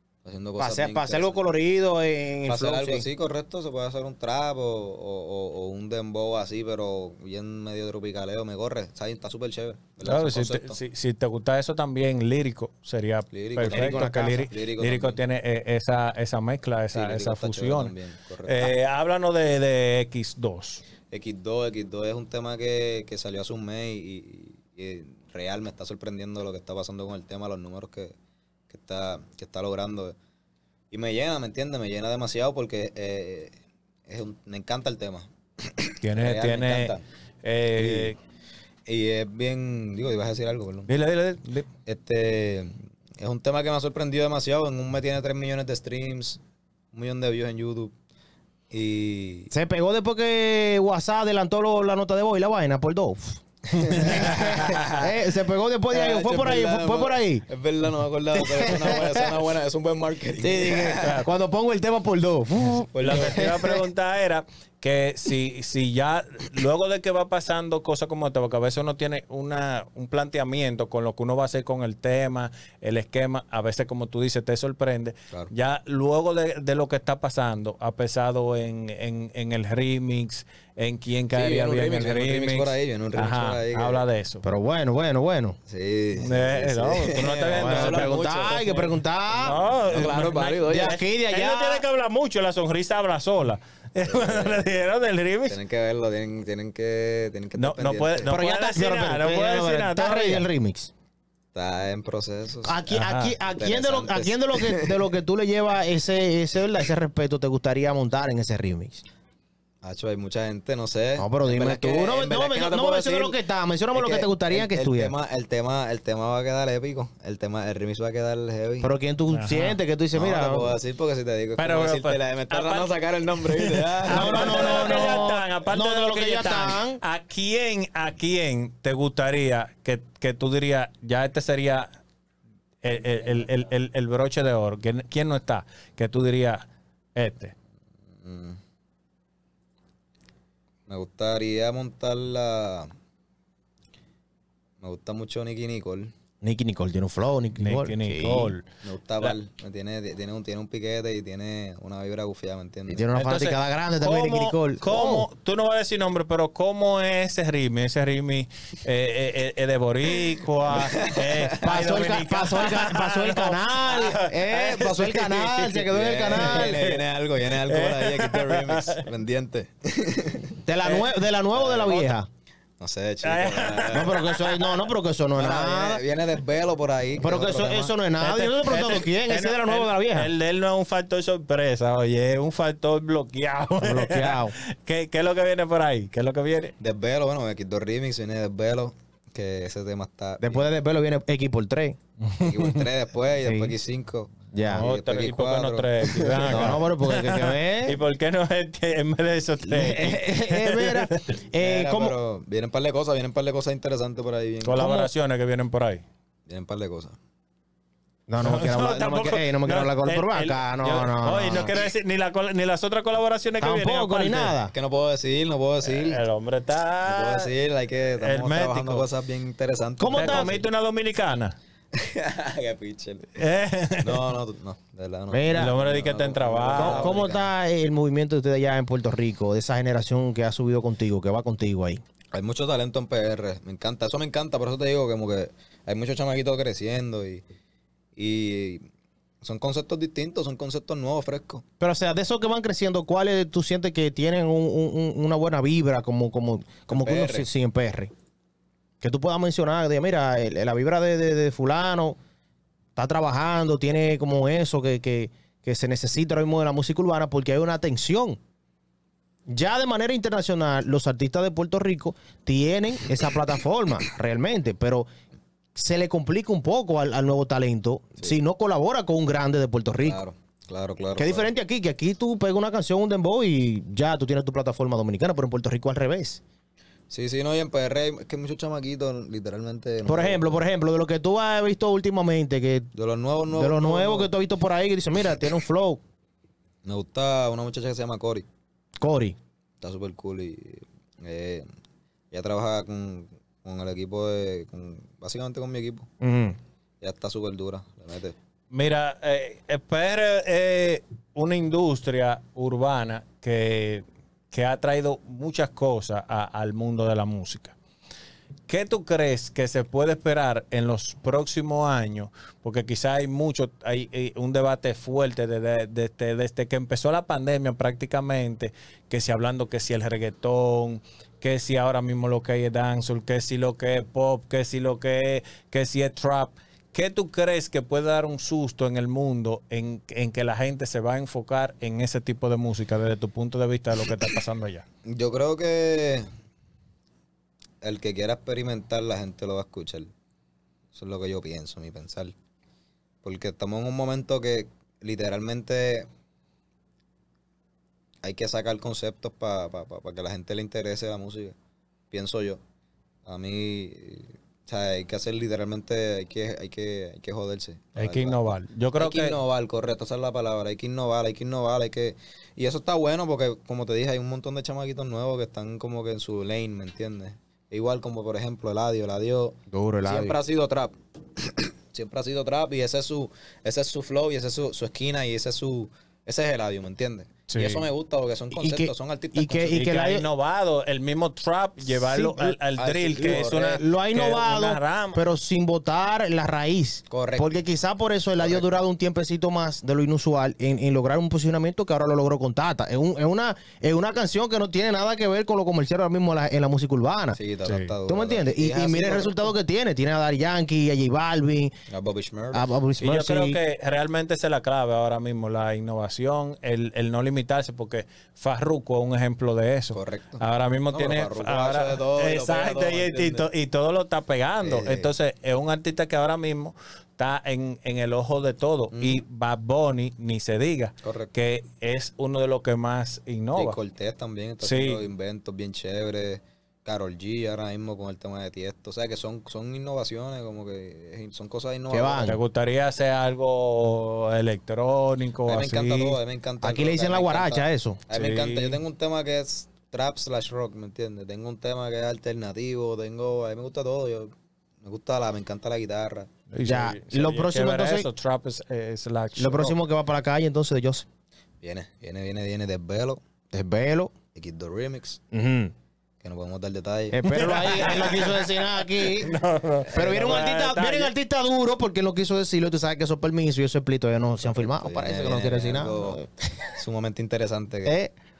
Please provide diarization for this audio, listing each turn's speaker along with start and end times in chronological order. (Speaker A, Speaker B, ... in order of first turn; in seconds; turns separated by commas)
Speaker A: 0.2-1.4, Speaker B: 0.6-3.1, Speaker A: 2.5-10.8, Speaker C: 10.0-17.9, Speaker A: 13.3-15.2, Speaker A: 16.9-18.8, Speaker C: 18.4-20.8, Speaker A: 21.1-28.1, Speaker A: 28.7-30.2, Speaker A: 30.9-33.5, Speaker A: 34.1-37.0, Speaker C: 36.0-38.2, Speaker A: 37.8-38.1, Speaker A: 38.9-40.9, Speaker C: 40.9-41.7, Speaker A: 41.9-46.4, Speaker A: 46.9-47.9, Speaker A: 48.7-49.5, Speaker B: 49.5-57.5, Speaker A: 53.7-55.1, Speaker C: 54.4-54.7, Speaker A: 55.9-61.2, Speaker B: 58.4-59.3, Speaker B: 60.4-63.8, Speaker A: 62.9-63.4, Speaker C: 63.0-84.5, Speaker A: 81.3-84.0, Speaker B: 84.4-85.6, Speaker A: 85.7-89.0, Speaker C: 86.2-88.2, Speaker B: 87.5-89.6, Speaker C: 89.4-95.6, Speaker A: 89.8-91.0, Speaker B: 90.7-91.8, Speaker A: 94.0-94.7, Speaker A: 95.5-98.3, Speaker C: 97.5-100.5, Speaker B: 98.3-100.9, Speaker A: 101.5-102.8, Speaker B: 102.6-109.0, Speaker C: 102.9-103.4, Speaker A: 103.5-105.1, Speaker A: 109.8-118.9, Speaker B: 111.2-115.1, Speaker B: 118.8-120.8, Speaker C: 119.3-119.8, Speaker A: 120.1-125.2, Speaker C: 121.6-131.9, Speaker B: 124.1-127.0, Speaker C: 132.8-137.5, Speaker A: 138.2-138.6, Speaker A: 140.9-142.9, Speaker A: 144.8-146.1, Speaker B: 146.4-148.5, Speaker C: 147.6-148.7, Speaker A: 148.8-153.1, Speaker B: 152.9-155.3, Speaker C: 153.1-166.9, Speaker A: 160.7-161.3, Speaker B: 161.6-166.9, Speaker A: 165.9-170.6, Speaker C: 167.6-169.1, Speaker B: 170.7-172.3, Speaker C: 170.8-171.1, Speaker A: 171.5-172.2, Speaker A: 172.8-174.4, Speaker C: 173.2-174.7, Speaker B: 173.9-176.0, Speaker A: 175.3-177.9, Speaker B: 177.2-180.3, Speaker C: 178.2-186.8, Speaker B: 183.8-184.6, Speaker A: 186.8-190.7, Speaker B: 190.4-192.0, Speaker C: 192.3-192.6, Speaker A: 192.4-196.8, Speaker B: 193.4-193.8, Speaker B: 194.5-194.9, Speaker C: 194.7-201.3, Speaker B: 196.5-198.0, Speaker B: 199.6-202.2, Speaker A: 201.6-204.8, Speaker C: 204.6-206.0, Speaker B: 204.8-205.1, Speaker A: 206.5-207.2, Speaker B: 208.3-211.8, Speaker C: 208.4-214.5, Speaker B: 213.6-214.7, Speaker A: 214.7-216.2, Speaker C: 215.8-217.5, Speaker A: 217.0-220.7, Speaker C: 218.2-219.1, Speaker B: 220.0-220.6, Speaker C: 220.1-221.6, Speaker A: 222.0-223.3, Speaker C: 223.4-224.3, Speaker A: 224.0-227.5, Speaker B: 225.3-225.8, Speaker C: 225.5-227.2, Speaker B: 226.7-232.0, Speaker A: 232.3-237.4, Speaker A: 238.2-238.9, Speaker A: 239.4-241.6, Speaker B: 241.8-248.1, Speaker A: 246.9-247.5, Speaker B: 249.0-252.2, Speaker B: 253.0-258.4, Speaker B: 259.5-265.1, Speaker B: 265.8-270.2, Speaker A: 270.0-271.5, Speaker B: 271.2-276.4, Speaker A: 277.1-280.4, Speaker B: 280.1-282.9, Speaker A: 282.9-284.3, Speaker B: 283.5-286.0, Speaker A: 286.9-288.5, Speaker B: 289.0-289.4, Speaker A: 289.8-291.7, Speaker A: 292.3-296.1, Speaker B: 296.2-296.6, Speaker A: 297.0-298.4, Speaker C: 298.7-307.8, Speaker C: 308.7-334.9, Speaker A: 335.1-336.3, Speaker A: 337.8-340.1, Speaker A: 340.9-342.3, Speaker A: 343.2-346.1, Speaker A: 348.2-351.6, Speaker A: 352.1-352.6, Speaker A: 353.3-379.9, Speaker C: 358.0-359.4, Speaker B: 369.7-370.4, Speaker C: 377.5-377.8, Speaker B: 378.5-380.2, Speaker C: 379.7-385.2, Speaker B: 381.9-382.6, Speaker A: 382.8-383.7, Speaker B: 383.2-397.4, Speaker A: 387.1-387.6, Speaker A: 388.4-388.7, Speaker A: 397.3-399.5, Speaker C: 397.6-397.9, Speaker B: 398.1-401.7, Speaker A: 401.9-402.7, Speaker B: 402.5-403.6, Speaker C: 403.0-423.8, Speaker A: 409.9-413.5, Speaker A: 414.6-415.1, Speaker A: 418.9-419.2, Speaker A: 421.0-421.3, Speaker A: 423.6-432.3, Speaker C: 424.6-425.1, Speaker B: 431.9-432.4, Speaker C: 432.2-436.2, Speaker A: 435.4-446.3, Speaker B: 436.6-438.0, Speaker C: 438.1-438.8, Speaker C: 446.5-449.8, Speaker B: 446.6-448.1, Speaker B: 449.4-451.1, Speaker A: 451.6-453.2, Speaker B: 453.5-454.1, Speaker A: 454.4-455.2, Speaker B: 455.3-455.7, Speaker A: 456.2-458.1, Speaker B: 457.1-459.3, Speaker C: 457.3-461.1, Speaker B: 459.9-466.7, Speaker A: 459.9-460.5, Speaker A: 464.6-466.2, Speaker A: 466.8-468.0, Speaker B: 467.9-468.1